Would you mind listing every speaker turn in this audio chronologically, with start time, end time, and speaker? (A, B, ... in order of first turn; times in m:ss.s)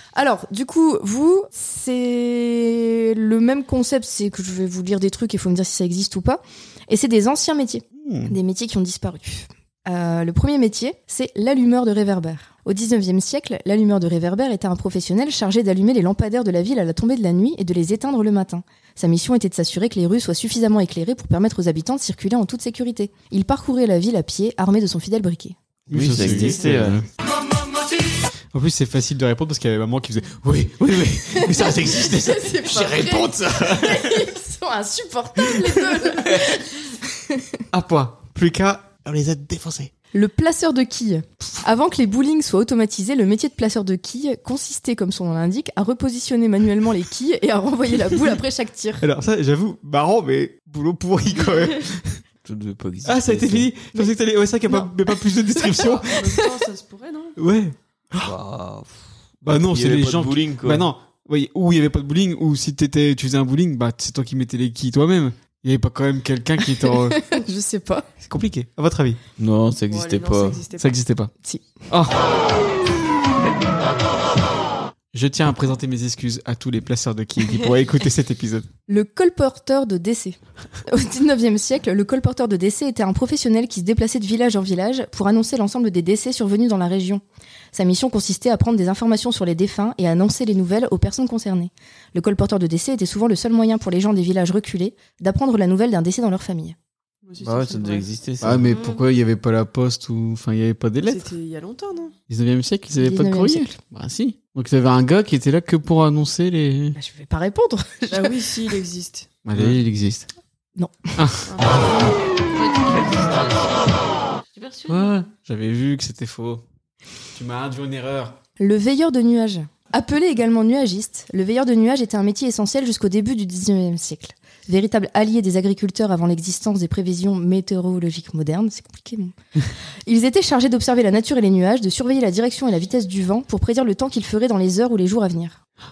0:00.2-0:25.6 A
0:08.0-0:08.4 B
0:25.9-0:27.1 B
0:25.9-0:27.0 C
0:26.1-0:26.6 A
0:28.5-0:34.2 B
0:31.3-0:37.6 A
0:37.7-0:39.9 B
0:40.1-0:49.0 A
0:49.0-0:52.2 B
0:52.4-0:53.7 C
0:53.0-0:56.4 B
0:55.8-0:57.4 D
0:57.4-0:58.3 B
0:58.2-1:00.9 C
0:59.4-1:07.2 B
1:06.8-1:08.1 A
1:08.2-1:09.2 B
1:09.4-1:10.6 C
1:09.9-1:11.0 D
1:10.8-1:11.3 B
1:11.4-1:11.8 A
1:11.9-1:12.2 B
1:15.1-1:18.7 B
1:18.9-1:27.2 A
1:27.7-1:36.8 A
1:37.2-1:38.1 D
1:37.4-1:38.7 C
1:38.4-1:41.3 B
1:38.6-1:39.0 E
1:41.0-1:42.2 D
1:42.3-1:47.0 B
1:43.0-1:43.7 A
1:47.0-1:48.5 A
1:48.1-1:49.3 D
1:49.4-1:50.3 B
1:50.8-1:51.1 A
1:51.2-1:52.1 B
1:51.5-1:52.1 D
1:52.5-1:55.3 E
1:54.9-1:56.6 B
1:57.3-1:58.4 B
1:58.6-2:09.3 A
2:10.1-2:15.6 A